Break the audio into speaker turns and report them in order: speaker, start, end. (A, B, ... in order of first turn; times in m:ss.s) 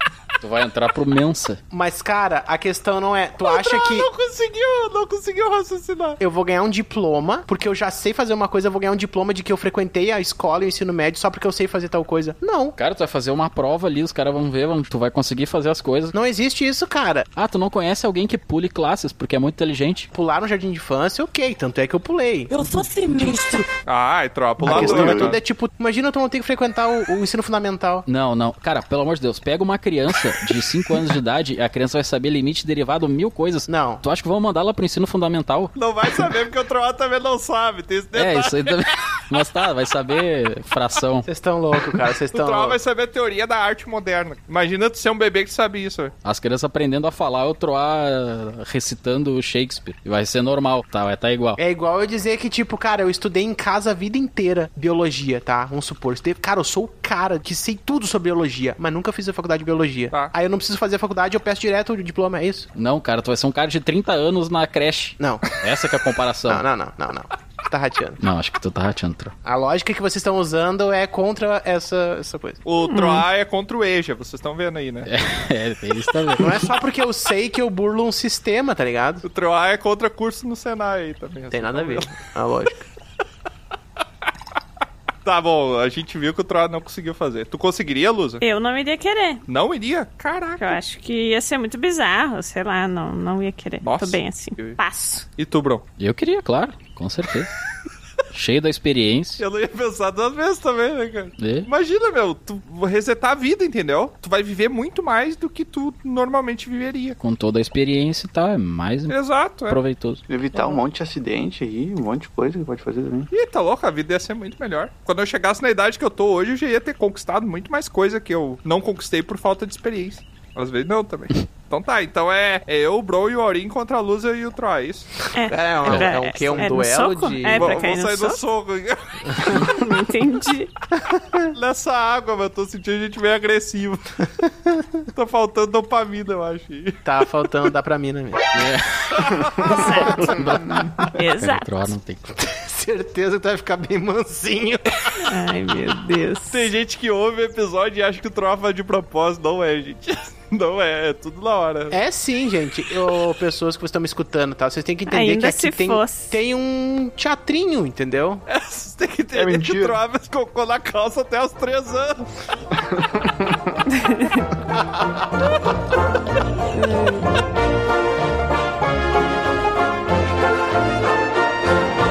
0:00.4-0:01.6 A
0:01.7-0:04.1 B
0:03.4-0:06.2 C
0:06.2-0:12.8 B
0:12.8-0:16.2 A
0:16.1-0:17.3 B
0:17.4-0:20.1 A
0:20.1-0:23.3 B
0:23.8-0:25.4 C
0:24.6-0:25.3 D
0:24.6-0:28.1 B
0:28.1-0:35.7 A
0:33.7-0:34.0 B
0:35.8-0:39.2 C
0:38.1-0:41.3 A
0:41.3-0:42.8 B
0:42.3-0:46.1 C
0:46.2-0:51.6 A
0:51.6-1:02.7 B
1:02.8-1:06.6 A
1:05.2-1:05.5 B
1:06.5-1:08.2 B
1:08.2-1:09.4 A
1:09.4-1:12.6 B
1:12.6-1:15.1 C
1:12.9-1:13.3 E
1:15.0-1:16.7 A
1:16.4-1:19.2 B
1:19.2-1:22.2 C
1:21.5-1:22.9 B
1:25.2-1:28.4 C
1:28.4-1:29.4 E
1:29.5-1:30.8 C
1:30.6-1:35.3 E
1:33.8-1:34.8 C
1:35.4-1:35.8 C
1:36.0-1:37.5 A
1:38.3-1:39.4 A
1:39.4-1:47.2 C
1:41.4-1:41.7 A
1:47.2-1:50.2 A
1:49.1-1:49.8 C
1:50.3-1:53.3 D
1:53.3-2:05.1 C
2:05.4-2:08.4 E
2:05.5-2:07.7 B
2:05.8-2:06.1 A
2:07.6-2:09.8 C
2:09.6-2:10.7 E
2:11.5-2:14.2 C
2:15.1-2:17.0 C
2:17.0-2:18.5 B
2:18.5-2:19.3 A
2:19.2-2:19.6 C
2:19.6-2:20.6 E
2:19.7-2:21.1 B
2:21.1-2:21.9 E
2:21.4-2:22.3 A
2:22.3-2:25.1 B
2:25.2-2:26.7 E
2:26.5-2:32.0 C
2:31.9-2:38.4 B
2:35.1-2:36.4 E
2:38.5-2:42.3 C
2:39.3-2:40.0 D
2:43.0-2:43.6 D
2:44.0-2:44.4 E
2:46.8-2:47.3 E